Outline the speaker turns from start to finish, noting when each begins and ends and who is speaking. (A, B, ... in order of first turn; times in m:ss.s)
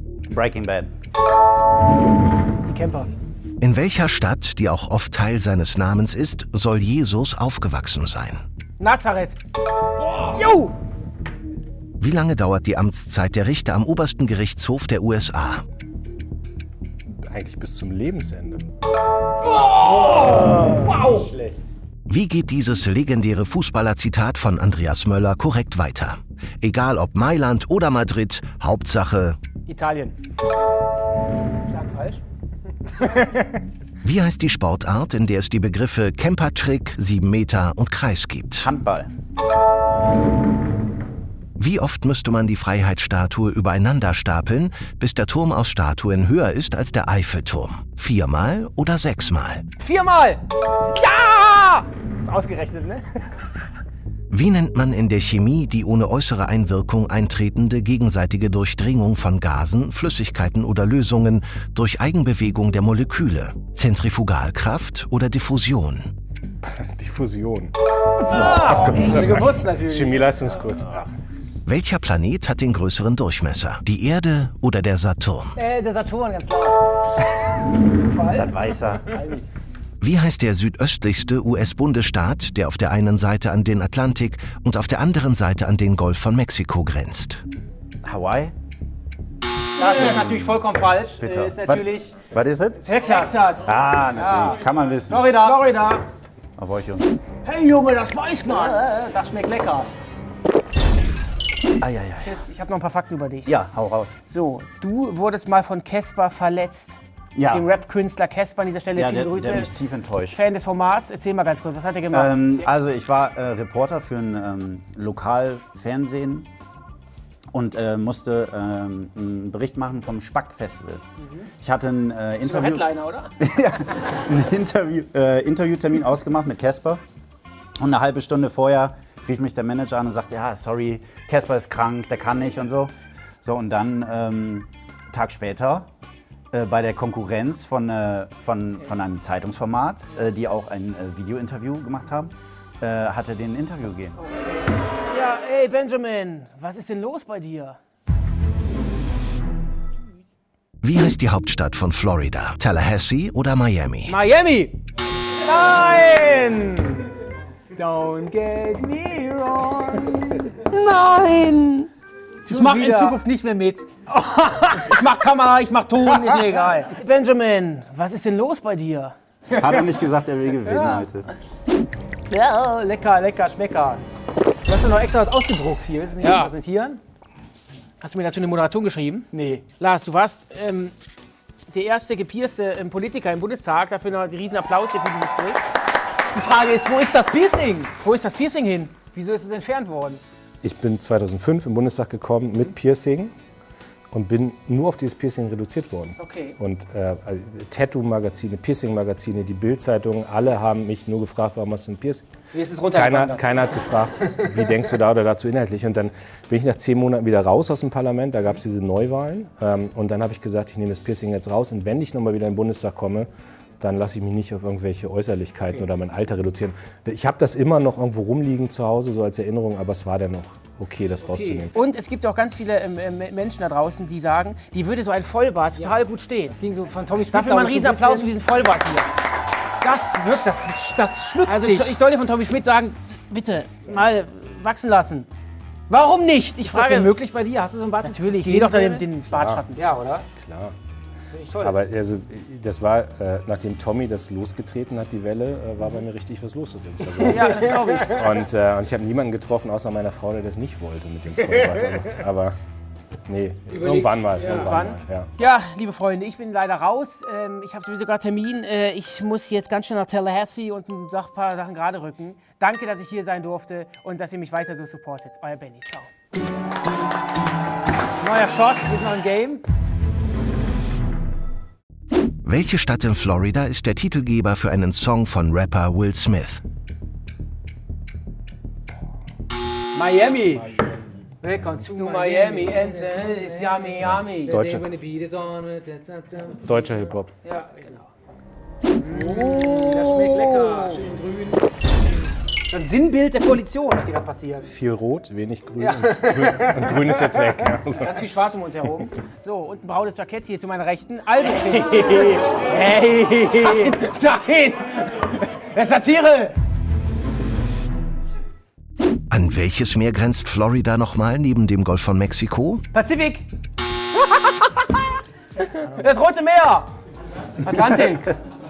0:00.3-0:00.9 A
0:02.7-0:03.1 B
0:03.6-0:08.4 C
0:08.8-0:09.4 D
0:10.2-0:10.7 D
0:12.0-0:15.6 C
0:17.2-0:18.7 E
0:19.5-0:21.3 B
0:22.1-0:29.4 C
0:29.7-0:30.2 B
0:31.7-0:32.2 B
0:33.0-0:33.4 B
0:34.0-0:38.7 C
0:38.6-0:39.1 A
0:41.6-0:49.6 C
0:49.8-0:50.4 B
0:50.9-0:51.9 D
0:51.0-0:53.3 B
0:54.3-1:06.1 C
1:06.6-1:07.7 E
1:08.2-1:10.2 B
1:08.3-1:11.1 E
1:11.7-1:15.6 C
1:15.6-1:16.8 B
1:17.8-1:18.6 B
1:18.3-1:19.2 A
1:19.1-1:19.5 B
1:20.0-1:27.4 C
1:28.0-1:28.5 A
1:29.8-1:32.2 B
1:29.8-1:30.7 A
1:31.2-1:32.9 A
1:32.8-1:33.5 B
1:33.0-1:34.6 D
1:33.6-1:35.3 A
1:34.2-1:34.5 B
1:35.0-1:35.7 B
1:35.3-1:36.1 D
1:36.6-1:37.1 A
1:37.4-1:38.8 D
1:37.5-1:39.9 B
1:41.8-1:42.4 A
1:42.2-1:43.6 D
1:43.5-1:44.2 A
1:44.3-1:47.0 D
1:47.4-1:47.7 A
1:47.5-1:49.7 D
1:49.0-1:50.4 A
1:50.3-1:52.7 D
1:52.1-1:56.5 A
1:57.5-2:01.0 A
2:01.6-2:02.9 A
2:02.4-2:03.3 D
2:03.4-2:07.0 A
2:07.8-2:12.9 A
2:13.4-2:15.9 A
2:16.5-2:24.2 A
2:25.1-2:27.8 D
2:30.8-2:34.2 C
2:34.1-2:34.8 D
2:35.4-2:37.2 B
2:37.7-2:41.7 B
2:40.7-2:41.9 D
2:42.4-2:43.2 B
2:42.5-2:44.1 D
2:44.1-2:46.5 B
2:44.7-2:45.0 D
2:46.0-2:49.2 D
2:49.5-2:51.3 A
2:50.6-2:51.1 B
2:52.3-2:54.0 B
2:54.6-2:57.0 B
2:56.2-2:56.5 D
2:58.0-3:01.0 D
2:59.3-2:59.6 B
3:01.7-3:05.6 D
3:06.3-3:08.0 B
3:08.0-3:09.0 D
3:09.1-3:10.2 B
3:10.6-3:13.3 E
3:14.1-3:22.3 E
3:16.2-3:16.6 D
3:22.5-3:23.4 B
3:22.9-3:33.3 E
3:33.8-3:41.7 E
3:41.3-3:41.7 B
3:41.7-3:46.6 D
3:46.5-3:48.3 B
3:47.3-3:49.1 D
3:49.8-3:52.0 B
3:51.4-3:55.3 D
3:55.9-3:57.1 D
3:56.6-3:59.1 B
3:58.0-3:59.8 D
3:59.3-3:59.6 E
3:59.8-4:00.3 B
4:00.4-4:00.8 E
4:01.3-4:01.8 B
4:01.6-4:12.6 E
4:07.2-4:08.3 D
4:13.3-4:15.3 E
4:13.9-4:14.6 B
4:14.4-4:26.1 D
4:28.2-4:29.6 B
4:32.4-4:36.6 C
4:39.9-4:40.7 B
4:41.4-4:46.8 B
4:41.9-4:44.6 D
4:44.3-4:44.9 E
4:46.6-4:47.3 E
4:47.4-4:48.0 D
4:47.7-4:48.0 B
4:49.0-4:51.1 D
4:49.0-4:51.6 B
4:52.7-4:54.7 B
4:54.6-4:58.2 E
4:55.8-4:56.9 B
4:58.0-5:06.5 D
5:01.6-5:03.9 B
5:09.3-5:12.8 C
5:12.9-5:13.4 D
5:15.7-5:16.9 D
5:17.6-5:18.3 D